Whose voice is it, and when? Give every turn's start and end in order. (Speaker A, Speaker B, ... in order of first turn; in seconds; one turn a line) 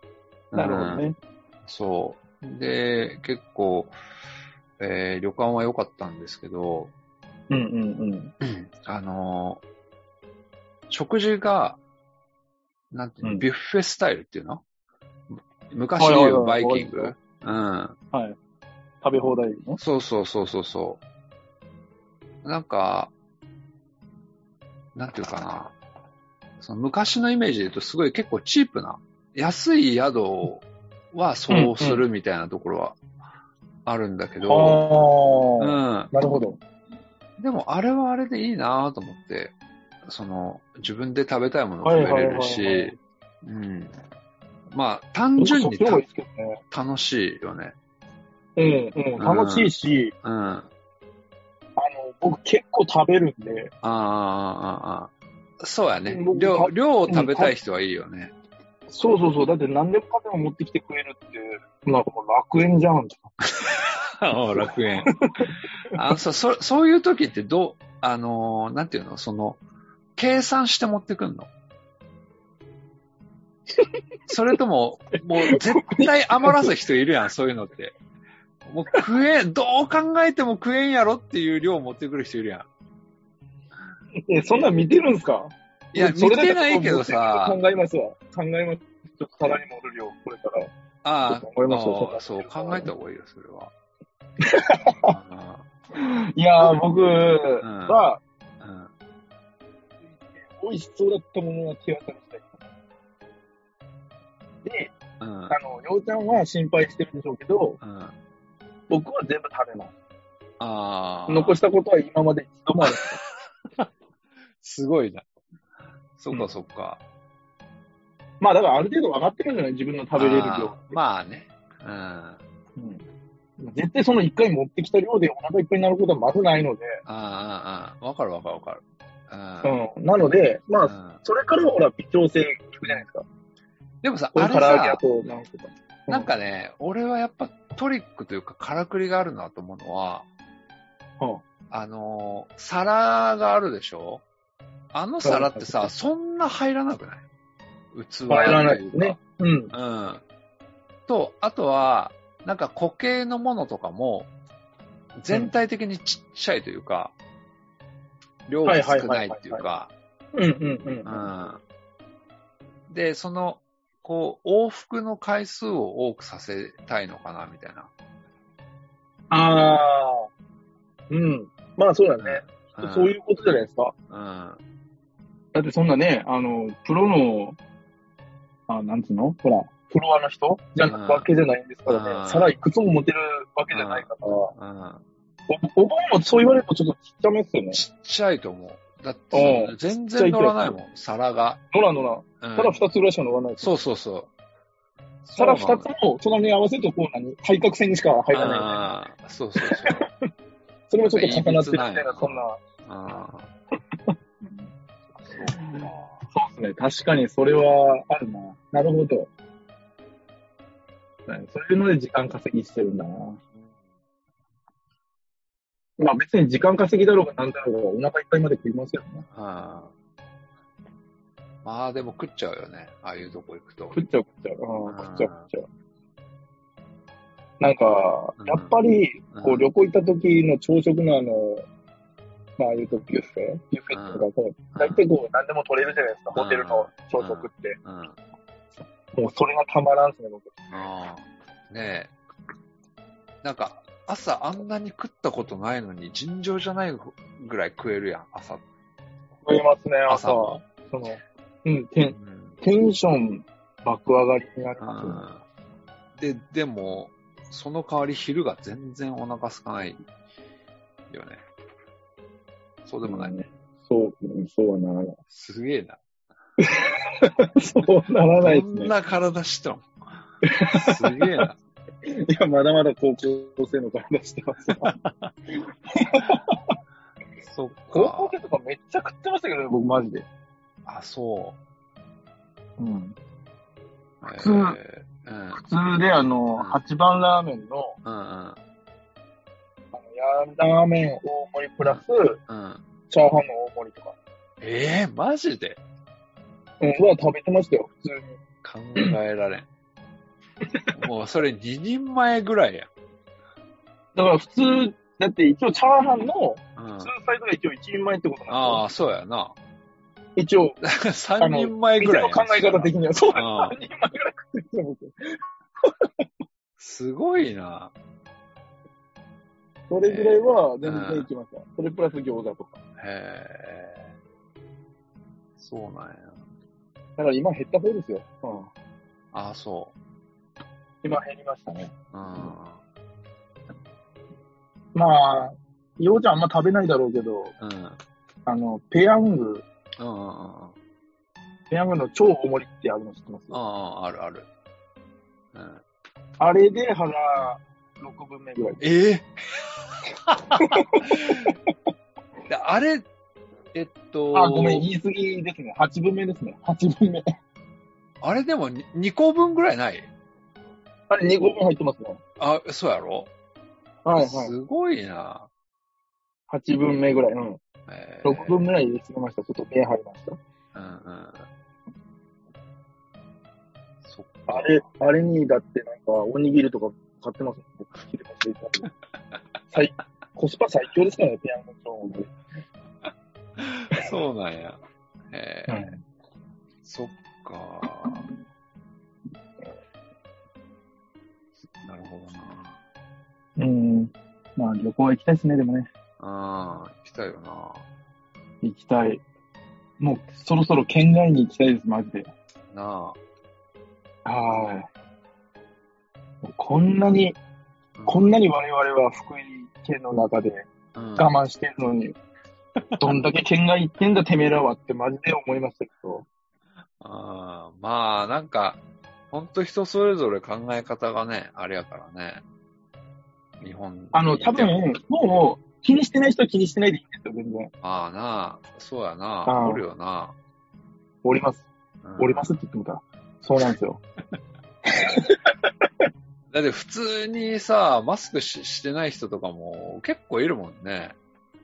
Speaker A: 0.5-1.1
Speaker B: 0.5-1.2
Speaker A: 1.6-3.9
Speaker A: 4.8-6.9
Speaker B: 7.5-8.3
Speaker A: 8.4-9.6
Speaker A: 10.9-11.8
Speaker A: 12.9-14.6
Speaker A: 15.3-17.9
Speaker B: 16.0-17.1
Speaker B: 18.1-18.4
Speaker B: 19.0-19.8
Speaker A: 19.8-21.0
Speaker A: 22.4-23.1
Speaker A: 24.9-25.7
Speaker A: 26.6-33.0
Speaker B: 31.5-32.0
Speaker A: 33.9-34.8
Speaker B: 34.4-36.6
Speaker A: 35.6-36.1
Speaker A: 37.4-44.0
Speaker B: 41.8-43.0
Speaker A: 44.7-46.0
Speaker B: 45.4-46.6
Speaker A: 46.7-47.7
Speaker B: 48.5-50.1
Speaker A: 49.2-50.7
Speaker B: 51.8-53.7
Speaker A: 53.8-58.3
Speaker B: 56.0-57.5
Speaker B: 58.9-63.3
Speaker A: 63.7-65.1
Speaker A: 65.9-69.6
Speaker A: 70.2-71.5
Speaker A: 74.3-78.0
Speaker B: 75.4-76.7
Speaker A: 78.6-82.7
Speaker B: 84.3-90.7
Speaker A: 85.9-87.6
Speaker A: 91.0-93.7
Speaker B: 91.3-92.9
Speaker B: 94.5-95.2
Speaker A: 95.1-95.7
Speaker B: 96.0-98.2
Speaker A: 97.6-98.0
Speaker A: 98.6-98.9
Speaker B: 100.0-102.6
Speaker B: 104.6-104.9
Speaker A: 105.2-105.5
Speaker B: 105.5-107.8
Speaker A: 107.8-108.1
Speaker B: 108.9-109.9
Speaker A: 110.6-111.6
Speaker B: 111.3-113.2
Speaker A: 112.8-113.1
Speaker A: 114.6-115.2
Speaker A: 116.2-117.0
Speaker B: 118.4-121.0
Speaker A: 120.2-122.4
Speaker B: 122.8-123.0
Speaker B: 123.6-127.0
Speaker A: 127.0-129.8
Speaker B: 129.6-133.2
Speaker A: 130.8-131.2
Speaker A: 134.0-135.0
Speaker B: 134.3-136.3
Speaker A: 136.1-140.3
Speaker A: 141.7-144.2
Speaker A: 144.9-147.2
Speaker B: 145.2-145.9
Speaker A: 147.9-149.2
Speaker B: 148.3-149.7
Speaker A: 149.7-150.2
Speaker A: 151.1-154.3
Speaker A: 155.2-157.2
Speaker A: 158.5-159.9
Speaker B: 158.6-159.7
Speaker B: 160.3-161.3
Speaker A: 161.0-161.6
Speaker A: 162.9-167.9
Speaker B: 169.3-170.3
Speaker B: 171.1-173.9
Speaker A: 172.2-173.2
Speaker A: 174.1-174.6
Speaker B: 175.5-177.6
Speaker B: 178.7-184.5
Speaker A: 180.8-181.2
Speaker A: 181.9-182.6
Speaker A: 183.7-185.0
Speaker B: 185.5-187.8
Speaker A: 187.7-191.6
Speaker B: 189.3-190.8
Speaker B: 191.7-193.7
Speaker A: 192.4-192.8
Speaker A: 193.6-194.3
Speaker A: 195.2-195.9
Speaker B: 195.4-198.9
Speaker A: 198.3-200.1
Speaker B: 199.6-200.1
Speaker B: 200.9-202.6
Speaker A: 201.1-203.5
Speaker A: 205.1-206.2
Speaker B: 206.3-209.3
Speaker B: 211.3-213.4
Speaker B: 216.0-219.2
Speaker A: 219.3-219.9
Speaker A: 221.6-224.0
Speaker B: 223.9-225.7
Speaker A: 224.8-225.5
Speaker B: 227.6-231.6
Speaker A: 228.4-228.7
Speaker A: 229.3-229.7
Speaker B: 232.6-237.8
Speaker A: 233.9-235.0
Speaker A: 236.3-238.2
Speaker B: 239.1-240.6
Speaker A: 240.7-242.1
Speaker A: 243.4-248.6
Speaker B: 249.4-255.2
Speaker A: 250.1-250.6
Speaker A: 252.1-252.6
Speaker A: 254.8-255.4
Speaker A: 256.2-260.0
Speaker A: 261.1-261.4
Speaker A: 262.8-263.4
Speaker B: 263.0-265.2
Speaker A: 265.3-266.0
Speaker B: 266.6-268.9
Speaker A: 268.4-269.9
Speaker B: 270.4-271.3
Speaker A: 270.7-271.6
Speaker B: 272.0-274.9
Speaker A: 274.8-275.3
Speaker B: 276.0-276.6
Speaker A: 277.4-278.3
Speaker B: 277.9-280.2
Speaker A: 280.8-281.6
Speaker B: 282.8-283.1
Speaker A: 284.2-285.6
Speaker B: 284.3-284.8
Speaker B: 285.5-287.9
Speaker A: 286.5-286.8
Speaker A: 288.0-288.6
Speaker B: 289.9-292.4
Speaker A: 291.8-292.8
Speaker B: 293.1-294.1
Speaker A: 294.6-295.8
Speaker B: 296.8-298.3
Speaker A: 298.6-299.7
Speaker A: 300.9-302.9
Speaker B: 304.1-308.8
Speaker A: 306.8-307.1
Speaker A: 308.5-309.6
Speaker B: 310.4-310.8
Speaker A: 310.8-313.8
Speaker B: 311.4-315.9
Speaker A: 316.8-317.9
Speaker B: 319.9-322.8
Speaker A: 320.0-321.3
Speaker A: 323.0-324.1
Speaker A: 325.6-326.4
Speaker B: 327.2-328.7
Speaker A: 329.3-329.9
Speaker B: 331.0-332.5
Speaker A: 332.1-332.8
Speaker B: 334.9-337.5
Speaker A: 337.6-338.0
Speaker B: 338.4-339.6
Speaker A: 340.0-340.8
Speaker B: 341.7-343.6
Speaker A: 343.5-344.5
Speaker A: 345.5-345.8
Speaker B: 346.4-348.8
Speaker A: 348.8-351.5
Speaker B: 350.6-351.6
Speaker A: 352.5-353.1
Speaker A: 353.7-354.8
Speaker B: 354.3-357.2
Speaker A: 358.2-360.1
Speaker B: 361.1-362.2
Speaker A: 362.4-363.3
Speaker B: 364.0-364.5
Speaker A: 364.2-365.5
Speaker B: 366.5-367.6
Speaker A: 367.9-368.6
Speaker B: 368.2-370.4
Speaker A: 370.7-371.4
Speaker A: 374.0-374.8
Speaker B: 374.5-378.9
Speaker B: 379.7-382.3
Speaker A: 383.6-384.8
Speaker A: 385.3-386.0
Speaker B: 385.7-386.0
Speaker A: 386.8-388.2
Speaker A: 391.8-392.7
Speaker B: 393.6-395.9
Speaker A: 396.2-397.8
Speaker B: 398.6-399.2
Speaker B: 400.0-402.3
Speaker A: 402.7-403.2
Speaker B: 404.2-404.9
Speaker B: 406.4-407.4
Speaker A: 407.9-408.3
Speaker B: 408.1-412.2
Speaker A: 410.9-411.3
Speaker B: 413.0-416.2
Speaker A: 417.0-422.4
Speaker A: 423.6-424.8
Speaker B: 424.1-427.7
Speaker A: 427.8-430.4
Speaker B: 429.4-429.8
Speaker B: 431.2-431.7
Speaker A: 432.0-432.5
Speaker B: 432.2-434.0
Speaker A: 436.5-441.2